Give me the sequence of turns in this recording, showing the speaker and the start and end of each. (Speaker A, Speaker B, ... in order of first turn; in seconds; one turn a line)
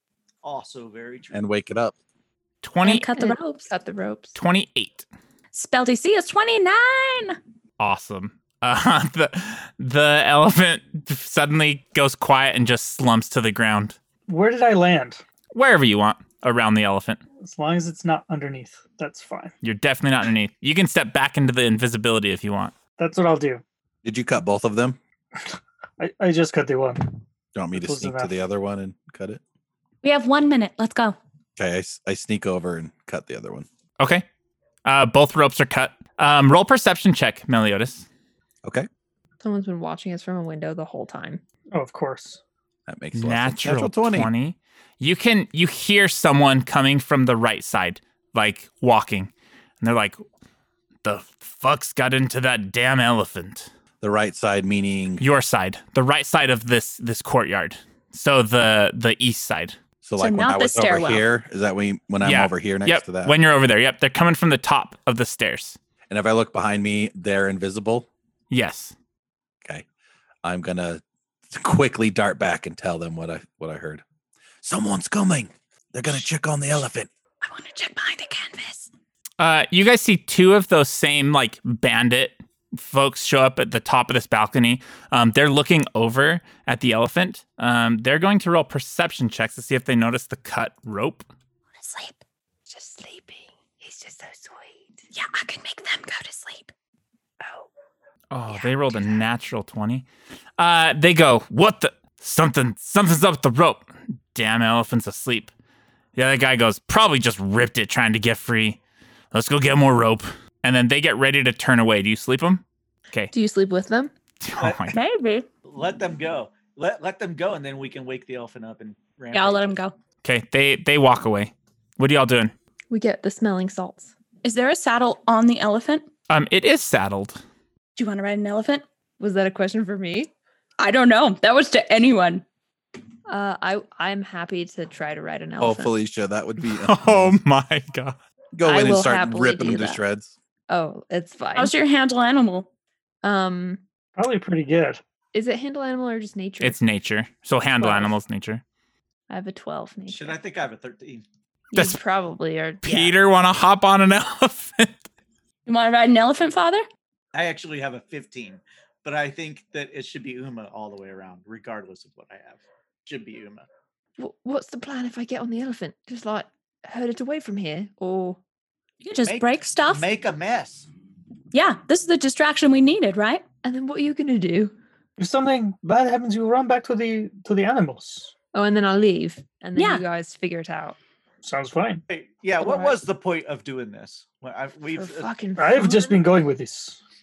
Speaker A: 0.4-1.4
Speaker B: 1.3-1.9
Speaker C: 2.6-3.1
Speaker D: 2.8-3.7
Speaker E: 2.9-4.4
Speaker C: 4.3-5.1
Speaker D: 5.5-7.4
Speaker C: 7.8-14.0
Speaker F: 14.3-15.2
Speaker C: 15.5-17.2
Speaker F: 17.4-19.5
Speaker C: 19.6-22.7
Speaker F: 23.0-23.6
Speaker B: 24.0-25.0
Speaker F: 26.0-27.2
Speaker B: 27.6-29.4
Speaker F: 27.8-28.3
Speaker D: 30.0-31.2
Speaker B: 31.6-33.7
Speaker C: 34.0-34.2
Speaker C: 34.9-38.1
Speaker E: 39.4-41.4
Speaker F: 41.7-42.4
Speaker B: 42.9-44.3
Speaker C: 43.1-50.2
Speaker C: 51.0-53.7
Speaker B: 54.0-55.2
Speaker C: 55.2-59.8
Speaker B: 60.0-63.4
Speaker D: 60.2-61.3
Speaker C: 62.2-65.8
Speaker B: 66.1-68.1
Speaker C: 68.5-69.0
Speaker B: 70.4-74.0
Speaker B: 74.6-77.1
Speaker D: 77.4-78.9
Speaker C: 79.4-91.3
Speaker D: 91.8-92.2
Speaker E: 92.7-95.0
Speaker D: 95.1-96.7
Speaker E: 97.4-97.7
Speaker C: 98.3-100.0
Speaker E: 98.5-99.2
Speaker C: 100.6-105.5
Speaker C: 106.2-108.8
Speaker C: 109.3-113.3
Speaker E: 113.3-114.1
Speaker C: 114.4-114.9
Speaker A: 114.6-114.9
Speaker D: 114.9-115.5
Speaker A: 115.7-119.8
Speaker D: 119.3-120.0
Speaker C: 120.2-122.5
Speaker E: 122.9-124.1
Speaker D: 124.4-126.1
Speaker C: 126.3-127.4
Speaker D: 128.0-128.8
Speaker E: 129.2-130.3
Speaker D: 130.8-132.4
Speaker E: 133.3-135.9
Speaker B: 135.6-137.4
Speaker C: 136.6-138.2
Speaker B: 138.6-140.3
Speaker E: 138.6-140.0
Speaker E: 140.7-141.8
Speaker D: 141.6-142.7
Speaker E: 143.2-143.8
Speaker F: 144.2-145.0
Speaker E: 145.3-146.8
Speaker C: 146.6-148.6
Speaker E: 147.8-148.2
Speaker E: 149.3-150.4
Speaker A: 150.1-151.2
Speaker E: 151.7-153.2
Speaker C: 151.7-152.0
Speaker C: 152.8-155.1
Speaker D: 155.7-156.8
Speaker A: 157.3-163.7
Speaker E: 164.2-168.4
Speaker D: 169.0-170.1
Speaker A: 169.2-170.9
Speaker D: 171.5-173.4
Speaker E: 173.6-174.8
Speaker F: 175.2-178.3
Speaker E: 178.5-181.0
Speaker D: 179.8-180.0
Speaker F: 181.4-182.0
Speaker A: 182.1-185.3
Speaker E: 182.6-183.0
Speaker E: 184.9-186.2
Speaker F: 185.6-187.0